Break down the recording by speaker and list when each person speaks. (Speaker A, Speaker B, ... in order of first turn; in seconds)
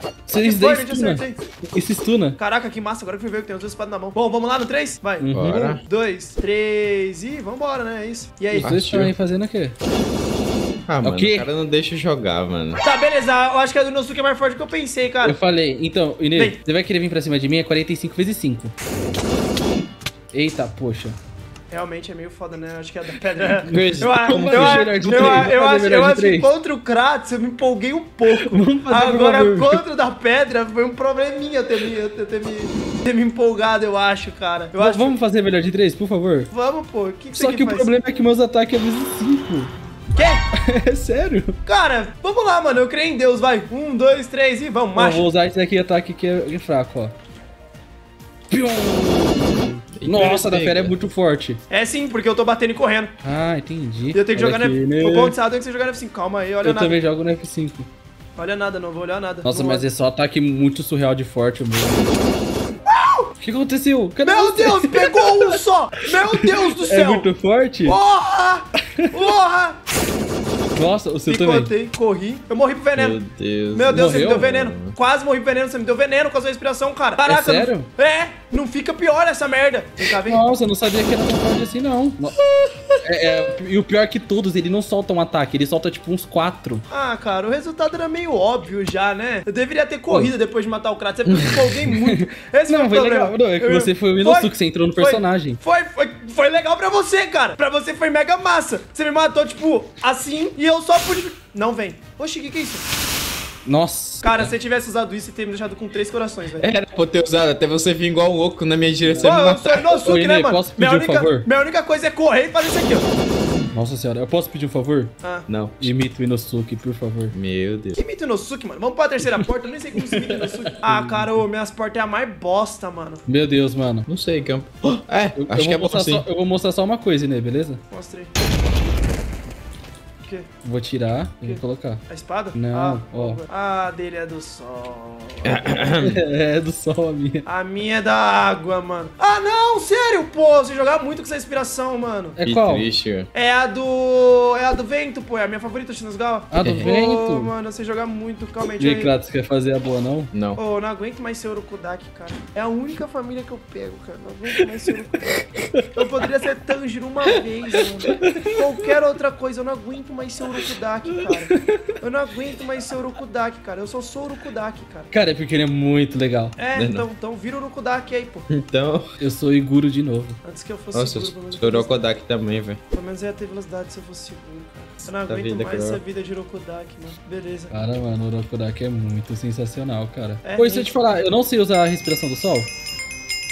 Speaker A: 0.3-2.4, 5.2-5.7, 8.5-9.7, 11.0-11.5, 15.2-18.7, 20.3-21.2, 23.6-26.5, 28.3-29.8, 34.8-36.5, 37.3-39.7, 40.6-41.5, 44.9-47.1, 48.5-51.6, 53.2-55.4, 56.6-57.9, 59.4-62.2, 63.4-65.6, 66.1-68.0, 70.7-71.7, 73.9-74.5, 77.2-77.9, 80.2-82.4, 83.0-86.8, 92.0-95.6, 103.6-104.5, 109.0-111.5, 113.7-115.1, 115.8-117.3, 120.0-121.4, 123.2-124.1, 125.3-127.8, 130.6-133.4, 136.0-137.4, 142.3-142.8, 146.5-147.5, 148.8-150.3, 155.3-155.9, 158.1-158.5, 161.5-161.8, 165.1-166.6, 169.2-170.4, 177.7-182.7
Speaker B: 0.3-1.4, 2.4-8.7, 12.8-15.4, 21.7-35.1, 36.5-37.9, 40.1-40.4, 41.6-45.3, 51.7-53.1, 54.1-57.0, 58.4-59.9, 62.9-63.3, 64.2-67.3, 67.8-69.8, 71.2-73.2, 73.7-80.4, 86.9-102.8, 104.2-106.7, 109.2-113.1, 118.0-123.2, 127.9-128.3, 130.2-130.5, 131.4-135.9, 137.4-142.3, 143.3-149.1, 150.6-165.1, 166.6-168.4, 170.4-172.0, 172.9-177.8, 180.4-180.9
Speaker C: 5.3-5.8, 8.6-9.1, 10.9-12.8, 23.7-25.5, 50.0-51.0, 73.0-75.0, 91.4-91.7, 106.6-109.8, 115.5-115.9, 117.3-118.0, 124.1-126.2, 135.4-136.2, 142.4-143.3, 146.6-146.9, 150.3-150.6, 166.8-167.1, 168.5-169.0, 170.9-172.8, 175.1-176.0